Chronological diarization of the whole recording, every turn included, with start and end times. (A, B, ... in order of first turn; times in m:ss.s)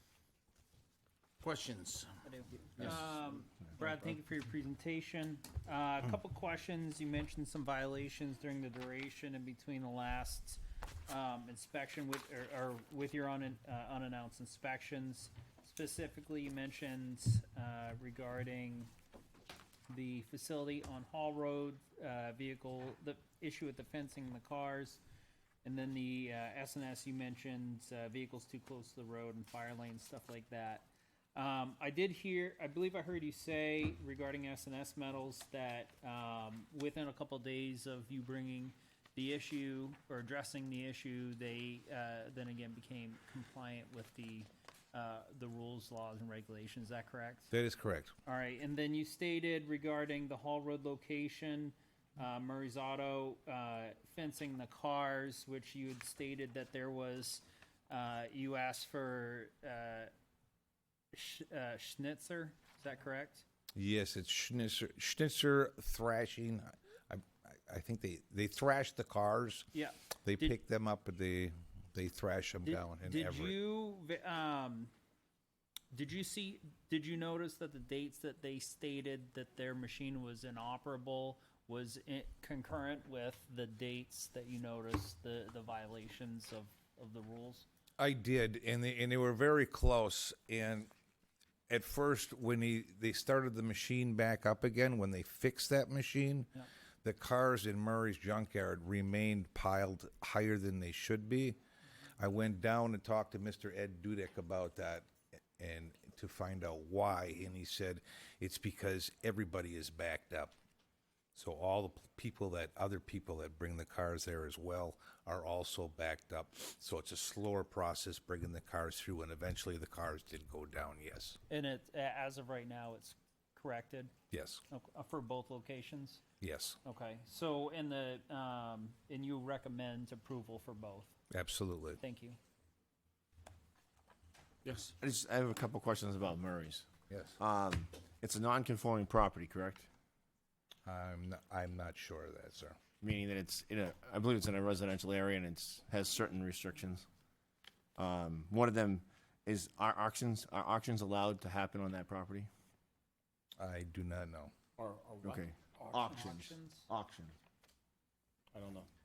0:01.4-0:03.0 A
0:02.2-0:18.9 B
0:19.9-0:25.0 B
0:25.6-0:47.5 B
0:47.5-0:48.1 C
0:48.2-1:00.1 B
1:01.1-1:03.4 B
1:03.7-1:09.7 C
1:09.7-1:10.6 B
1:10.2-1:13.6 C
1:12.6-1:14.9 B
1:15.9-1:27.6 B
1:28.0-1:30.9 C
1:31.7-1:36.5 C
1:37.0-1:41.6 C
1:42.2-1:50.5 C
1:51.3-2:01.4 C
2:01.5-2:04.1 B
2:04.3-2:04.6 C
2:04.7-2:06.2 B
2:06.4-2:06.8 C
2:06.8-2:11.1 B
2:11.3-2:12.0 C
2:12.0-2:12.4 B
2:14.6-2:14.9 A
2:15.0-2:16.9 D
2:17.1-2:17.4 C
2:17.4-2:19.9 D
2:20.8-2:22.8 C
2:23.0-2:27.0 D
2:28.0-2:32.5 D
2:33.6-2:34.5 C
2:34.8-2:36.3 A
2:35.2-2:37.3 D
2:35.9-2:36.9 B
2:38.5-2:38.9 A